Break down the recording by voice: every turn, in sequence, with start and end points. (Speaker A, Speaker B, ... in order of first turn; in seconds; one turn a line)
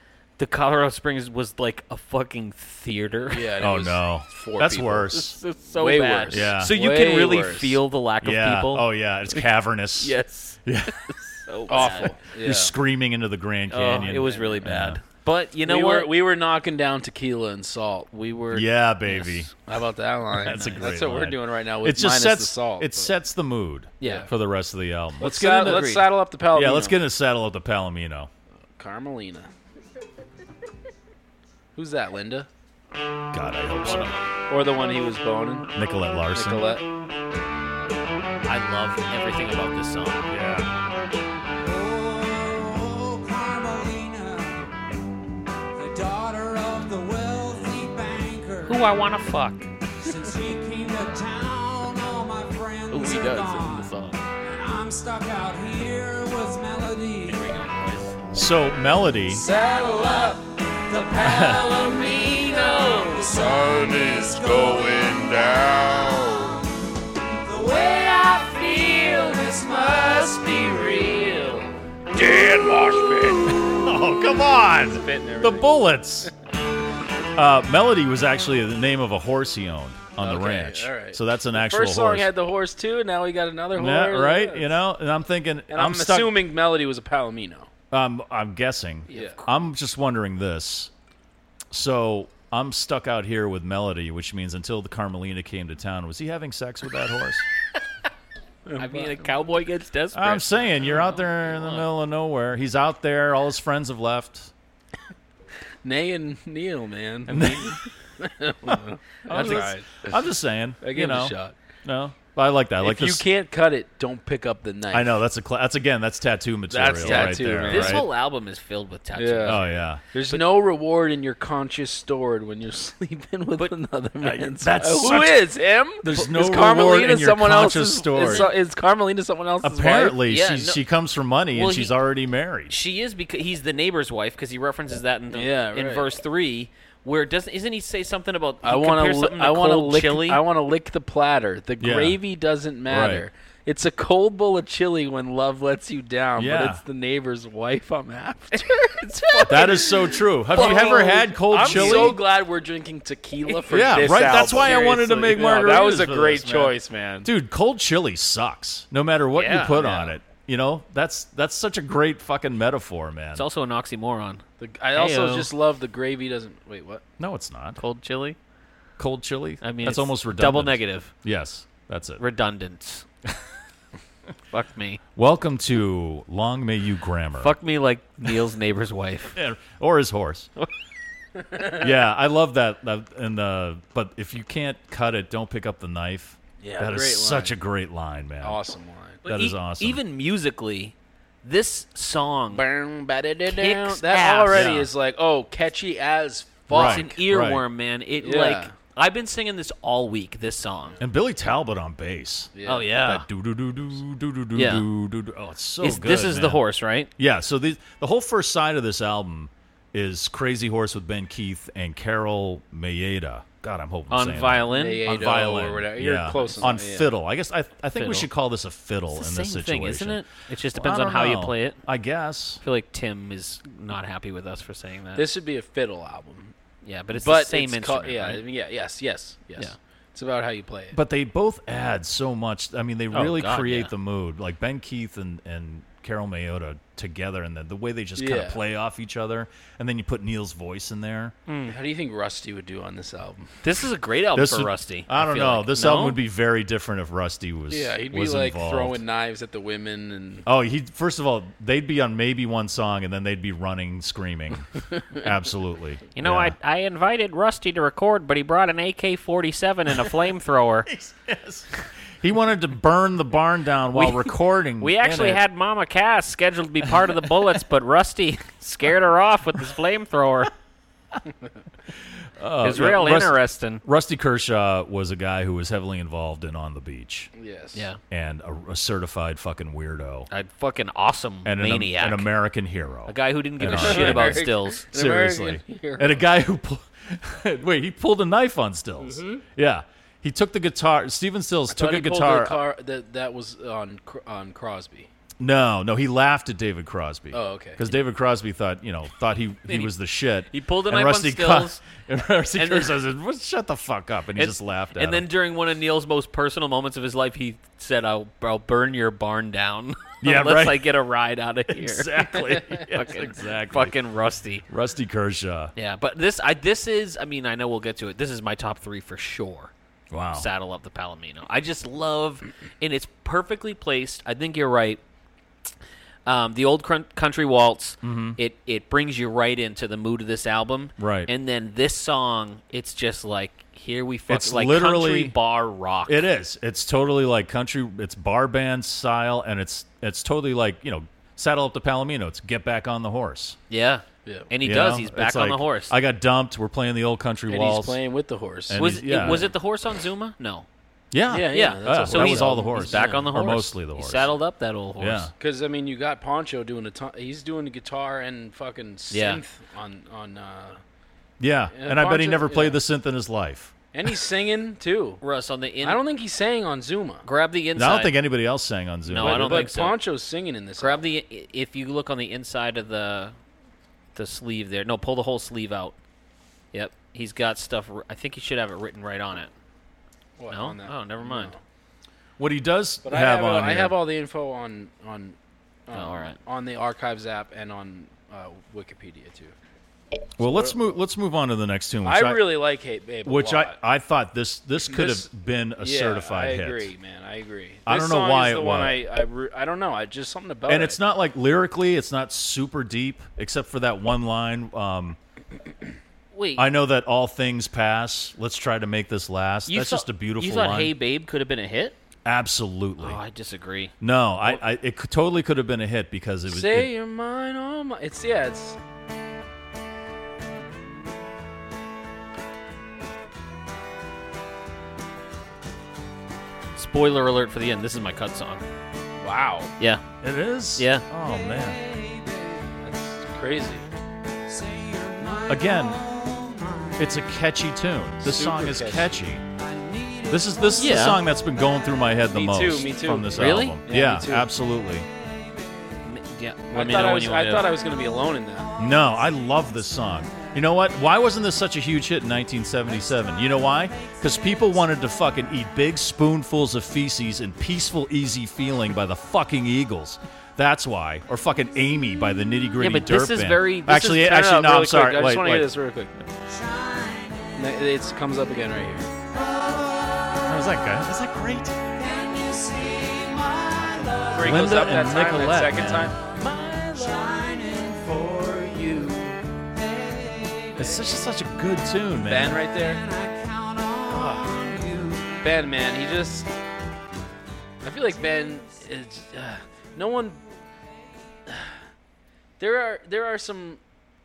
Speaker A: 0.4-3.6
Speaker B: 3.3-5.1
Speaker C: 3.6-5.4
Speaker A: 5.1-9.4
Speaker B: 5.7-7.8
Speaker C: 6.3-6.7
Speaker C: 8.2-10.1
Speaker A: 10.0-12.2
Speaker C: 10.7-11.0
Speaker B: 11.7-12.7
Speaker C: 12.4-15.0
Speaker A: 13.7-16.1
Speaker B: 14.2-14.6
Speaker B: 15.6-18.4
Speaker A: 18.2-19.5
Speaker C: 18.5-19.5
Speaker B: 19.7-23.1
Speaker C: 20.4-26.0
Speaker A: 20.5-20.9
Speaker A: 24.0-24.3
Speaker B: 24.0-24.3
Speaker B: 25.2-27.0
Speaker A: 25.6-26.1
Speaker C: 26.5-28.3
Speaker B: 28.8-29.5
Speaker B: 31.7-32.5
Speaker C: 33.3-34.1
Speaker A: 33.8-34.3
Speaker B: 34.5-35.7
Speaker C: 35.8-36.7
Speaker B: 36.3-36.8
Speaker A: 38.4-40.3
Speaker C: 40.3-40.7
Speaker D: 41.6-44.7
Speaker D: 45.7-49.0
Speaker A: 48.6-49.7
Speaker D: 50.0-57.5
Speaker A: 52.9-54.2
Speaker A: 57.3-58.2
Speaker C: 58.3-59.4
Speaker D: 59.3-66.6
Speaker C: 61.2-61.6
Speaker D: 67.5-71.6
Speaker D: 72.1-73.3
Speaker C: 73.5-76.3
Speaker B: 74.8-76.3
Speaker C: 77.3-82.3
Speaker B: 80.2-84.7
Speaker C: 83.7-86.4
Speaker B: 85.7-87.7
Speaker C: 87.9-90.9
Speaker B: 89.1-89.4
Speaker A: 89.1-89.4
Speaker C: 91.7-97.5
Speaker B: 98.7-99.3
Speaker A: 98.8-101.9
Speaker C: 100.1-104.5
Speaker B: 105.8-110.2
Speaker C: 107.3-107.8
Speaker C: 109.3-113.2
Speaker B: 110.8-111.5
Speaker B: 112.8-115.2
Speaker C: 114.9-118.0
Speaker B: 116.7-118.1
Speaker A: 117.0-119.8
Speaker B: 119.1-130.2
Speaker C: 119.5-120.0
Speaker A: 123.6-125.2
Speaker C: 124.6-125.4
Speaker C: 126.0-128.5
Speaker A: 128.2-128.6
Speaker C: 129.6-132.7
Speaker A: 130.2-130.8
Speaker A: 131.5-131.9
Speaker A: 132.7-140.4
Speaker B: 135.3-136.1
Speaker B: 138.6-157.3
Speaker C: 141.8-142.2
Speaker C: 142.9-143.3
Speaker C: 146.3-146.8
Speaker A: 148.5-152.2
Speaker C: 149.4-152.2
Speaker A: 153.5-154.9
Speaker C: 153.7-163.4
Speaker A: 159.3-160.1
Speaker A: 163.3-165.5
Speaker B: 164.6-167.0
Speaker C: 167.2-167.8
Speaker A: 167.8-168.4
Speaker C: 169.0-172.2
Speaker A: 169.6-171.1
Speaker A: 172.2-173.1
Speaker A: 174.5-175.0
Speaker C: 175.1-177.5
Speaker A: 177.4-179.4
Speaker C: 179.3-180.5
Speaker C: 181.8-188.6
Speaker B: 186.6-187.6
Speaker B: 188.4-189.2
Speaker C: 189.2-190.0
Speaker A: 189.2-192.7
Speaker B: 192.5-197.2
Speaker A: 193.4-194.8
Speaker C: 194.5-194.9
Speaker C: 196.7-197.6
Speaker A: 196.7-201.0
Speaker B: 198.2-198.7
Speaker C: 201.0-206.6
Speaker B: 202.5-202.9
Speaker A: 202.7-203.2
Speaker A: 204.5-204.9
Speaker A: 205.8-207.1
Speaker C: 207.2-222.6
Speaker A: 214.1-215.1
Speaker B: 214.7-217.1
Speaker A: 216.3-216.6
Speaker A: 217.9-218.3
Speaker A: 219.1-221.8
Speaker A: 222.6-225.3
Speaker B: 225.1-226.5
Speaker A: 226.8-228.4
Speaker B: 227.1-231.0
Speaker C: 230.9-241.3
Speaker A: 233.1-233.9
Speaker B: 238.2-238.6
Speaker A: 241.5-241.8
Speaker B: 241.7-243.5
Speaker A: 243.6-246.2
Speaker C: 244.3-249.0
Speaker B: 247.7-250.4
Speaker C: 250.4-256.6
Speaker A: 256.1-260.9
Speaker C: 260.9-261.7
Speaker C: 262.2-265.4
Speaker A: 263.9-270.5
Speaker C: 272.4-277.3
Speaker A: 272.6-273.8
Speaker B: 277.3-277.9
Speaker A: 277.7-278.0
Speaker C: 278.1-280.3
Speaker A: 280.3-282.3
Speaker C: 281.4-292.6
Speaker A: 283.1-284.9
Speaker B: 283.6-286.2
Speaker B: 291.7-295.1
Speaker C: 295.4-305.2
Speaker B: 297.3-297.8
Speaker A: 299.7-299.9
Speaker A: 300.5-301.8
Speaker A: 302.6-302.9
Speaker A: 304.4-314.6
Speaker C: 310.2-310.9
Speaker C: 311.7-313.9
Speaker C: 314.7-315.7
Speaker A: 315.8-319.7
Speaker C: 320.1-320.5
Speaker A: 320.3-325.0
Speaker A: 326.2-336.2
Speaker C: 328.0-328.4
Speaker C: 331.0-331.3
Speaker C: 334.3-335.4
Speaker C: 336.1-343.6
Speaker A: 343.7-345.9
Speaker C: 344.6-348.0
Speaker B: 347.5-349.5
Speaker C: 348.7-349.5
Speaker A: 348.8-350.6
Speaker C: 351.1-354.3
Speaker B: 351.3-353.5
Speaker A: 351.3-355.3
Speaker C: 355.0-355.3
Speaker B: 355.4-360.8
Speaker A: 359.1-359.4
Speaker C: 361.4-363.7
Speaker B: 361.7-362.8
Speaker B: 363.9-365.2
Speaker A: 365.2-366.0
Speaker B: 365.8-367.2
Speaker A: 367.2-368.1
Speaker C: 367.8-369.7
Speaker A: 369.1-370.0
Speaker B: 369.2-371.1
Speaker A: 370.8-373.3
Speaker A: 374.1-375.9
Speaker A: 376.7-379.5
Speaker B: 380.4-381.6
Speaker A: 380.5-381.5
Speaker C: 382.4-384.0
Speaker B: 383.0-385.4
Speaker B: 385.9-389.5
Speaker A: 385.9-386.4
Speaker C: 390.4-392.5
Speaker B: 390.4-390.8
Speaker B: 392.0-393.8
Speaker C: 393.2-396.9
Speaker B: 394.8-401.0
Speaker C: 397.9-399.0
Speaker C: 400.7-405.2
Speaker A: 406.3-406.6
Speaker C: 406.6-410.9
Speaker A: 409.7-412.0
Speaker C: 412.2-413.2
Speaker A: 413.0-413.9
Speaker C: 414.0-416.9
Speaker B: 416.5-418.8
Speaker A: 426.8-428.6
Speaker B: 429.2-429.7
Speaker C: 430.2-431.8
Speaker A: 430.8-431.0
Speaker D: 431.6-432.5
Speaker B: 432.8-433.9
Speaker D: 434.5-437.0
Speaker C: 435.5-436.0
Speaker C: 437.0-439.4
Speaker B: 438.2-439.2
Speaker D: 439.6-440.8
Speaker C: 440.3-445.1
Speaker A: 440.8-441.2
Speaker B: 442.3-444.5
Speaker A: 443.3-443.8
Speaker A: 446.0-447.8
Speaker B: 446.7-448.7
Speaker C: 448.8-465.7
Speaker D: 449.0-449.6
Speaker A: 462.8-464.2
Speaker B: 463.9-466.1
Speaker D: 466.5-467.4
Speaker B: 467.6-469.1
Speaker D: 469.4-470.3
Speaker C: 470.4-471.8
Speaker D: 471.9-474.5
Speaker B: 474.3-477.4
Speaker C: 474.4-476.1
Speaker D: 476.5-479.0
Speaker B: 478.1-479.3
Speaker D: 479.8-480.7
Speaker C: 480.8-482.6
Speaker B: 482.1-483.0
Speaker D: 482.8-485.4
Speaker B: 484.1-484.5
Speaker B: 485.4-486.5
Speaker B: 487.8-490.4
Speaker B: 492.6-493.8